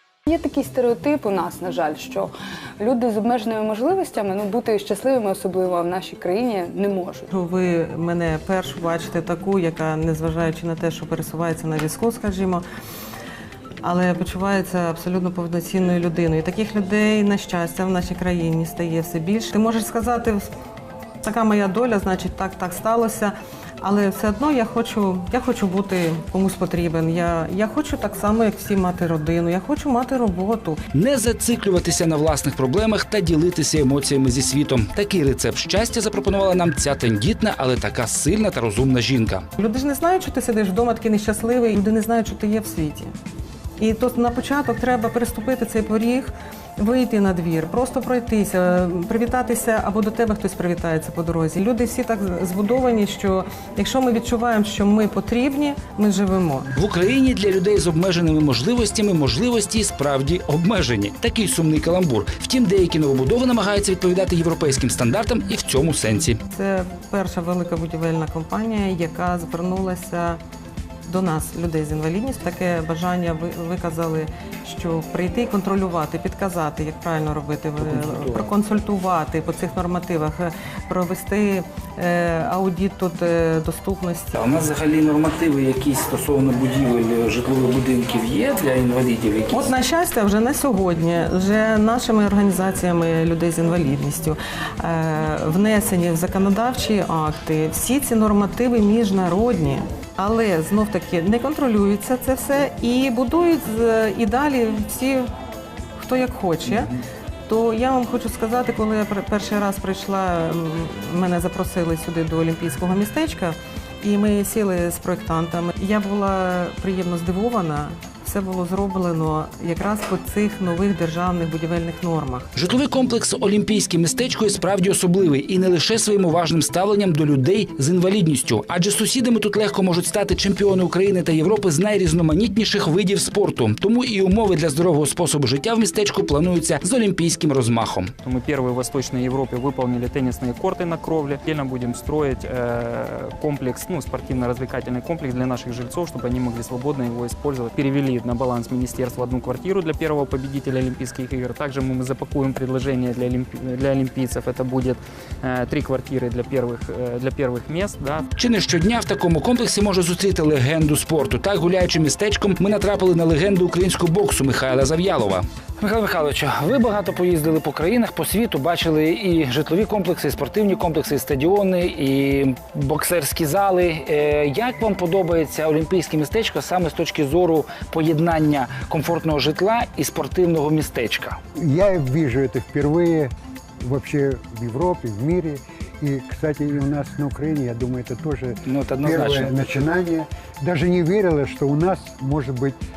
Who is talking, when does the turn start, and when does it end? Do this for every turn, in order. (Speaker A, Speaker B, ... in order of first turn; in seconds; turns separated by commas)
Speaker A: 0.3-7.3, Speaker B: 7.3-12.6, Speaker B: 13.8-20.5, Speaker B: 21.2-30.8, Speaker C: 30.9-39.5, Speaker B: 39.6-43.1, Speaker B: 43.8-56.7, Speaker C: 56.7-66.4, Speaker B: 66.5-70.4, Speaker B: 71.1-84.4, Speaker C: 77.8-78.5, Speaker C: 84.4-89.7, Speaker B: 89.5-105.3, Speaker B: 106.0-106.9, Speaker B: 107.5-122.5, Speaker C: 122.5-138.1, Speaker D: 138.2-158.3, Speaker C: 158.4-181.4, Speaker E: 181.6-183.3, Speaker E: 183.8-192.8, Speaker C: 188.7-189.5